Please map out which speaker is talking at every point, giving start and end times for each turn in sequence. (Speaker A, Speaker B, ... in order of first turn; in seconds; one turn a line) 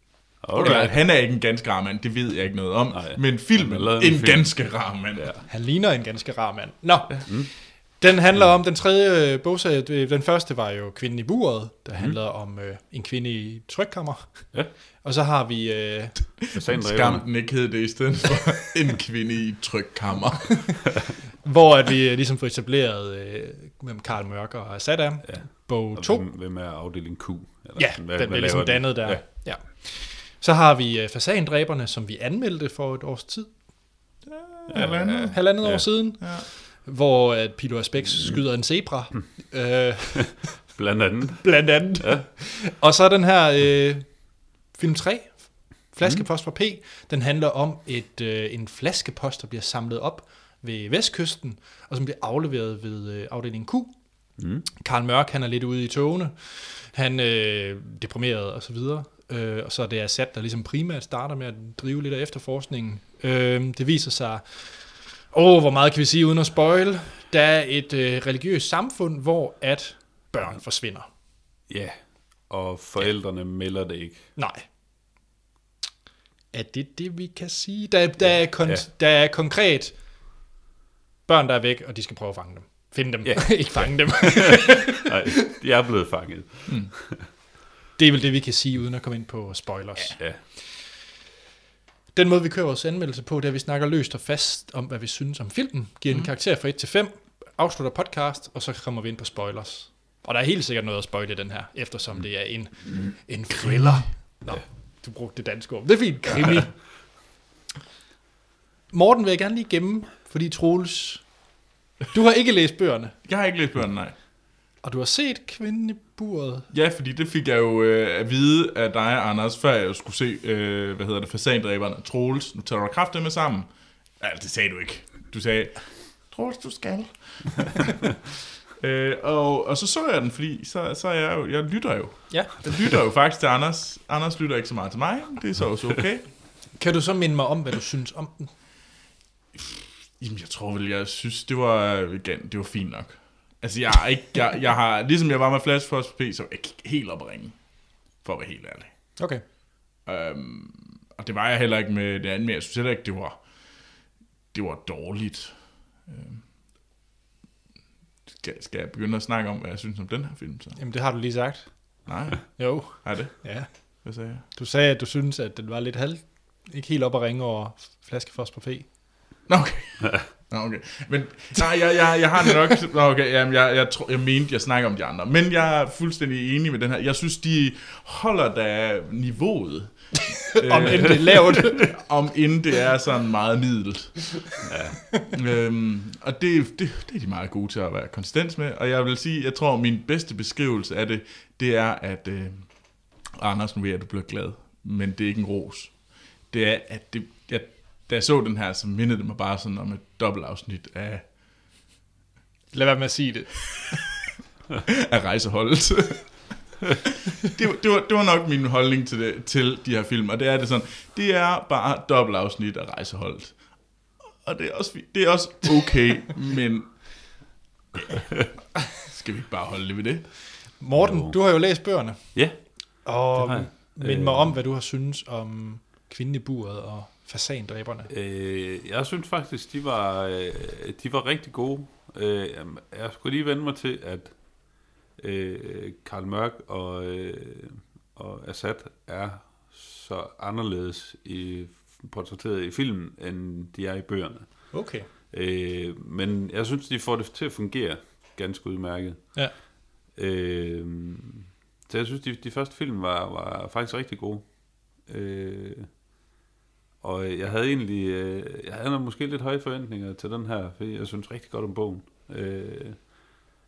Speaker A: 0.4-1.0
Speaker B: 0.6-5.3
Speaker C: 0.6-0.8
Speaker A: 2.9-5.5
Speaker C: 5.5-16.4
Speaker A: 7.3-8.5
Speaker A: 16.5-17.6
Speaker B: 16.6-20.8
Speaker C: 21.4-26.3
Speaker A: 25.2-29.4
Speaker C: 27.8-34.0
Speaker B: 34.2-36.5
Speaker C: 34.7-40.5
Speaker A: 35.3-35.9
Speaker A: 40.7-42.2
Speaker C: 41.4-71.1
Speaker A: 54.4-54.6
Speaker A: 71.7-74.3
Speaker C: 74.3-74.7
Speaker C: 76.5-80.1
Speaker C: 81.2-85.1
Speaker A: 83.2-87.3
Speaker B: 86.7-86.9
Speaker C: 88.0-90.6
Speaker A: 90.2-90.4
Speaker C: 92.1-106.9
Speaker A: 102.7-103.0
Speaker C: 108.9-111.5
Speaker C: 112.1-113.1
Speaker B: 113.2-114.2
Speaker C: 114.8-116.7
Speaker B: 116.7-127.9
Speaker B: 128.8-136.4
Speaker C: 136.8-138.5
Speaker B: 140.2-149.2
Speaker C: 149.2-149.4
Speaker B: 150.0-154.0
Speaker B: 154.5-156.5
Speaker B: 158.3-160.8
Speaker C: 160.8-168.9
Speaker B: 162.1-164.4
Speaker B: 169.5-184.3
Speaker C: 180.6-182.1
Speaker A: 184.6-185.0
Speaker B: 185.3-201.3
Speaker C: 202.7-204.0
Speaker B: 205.1-206.7
Speaker B: 207.5-217.5
Speaker B: 218.9-220.4
Speaker C: 220.8-228.1
Speaker A: 221.0-224.6
Speaker A: 228.1-256.0
Speaker C: 244.7-245.1
Speaker A: 257.0-263.1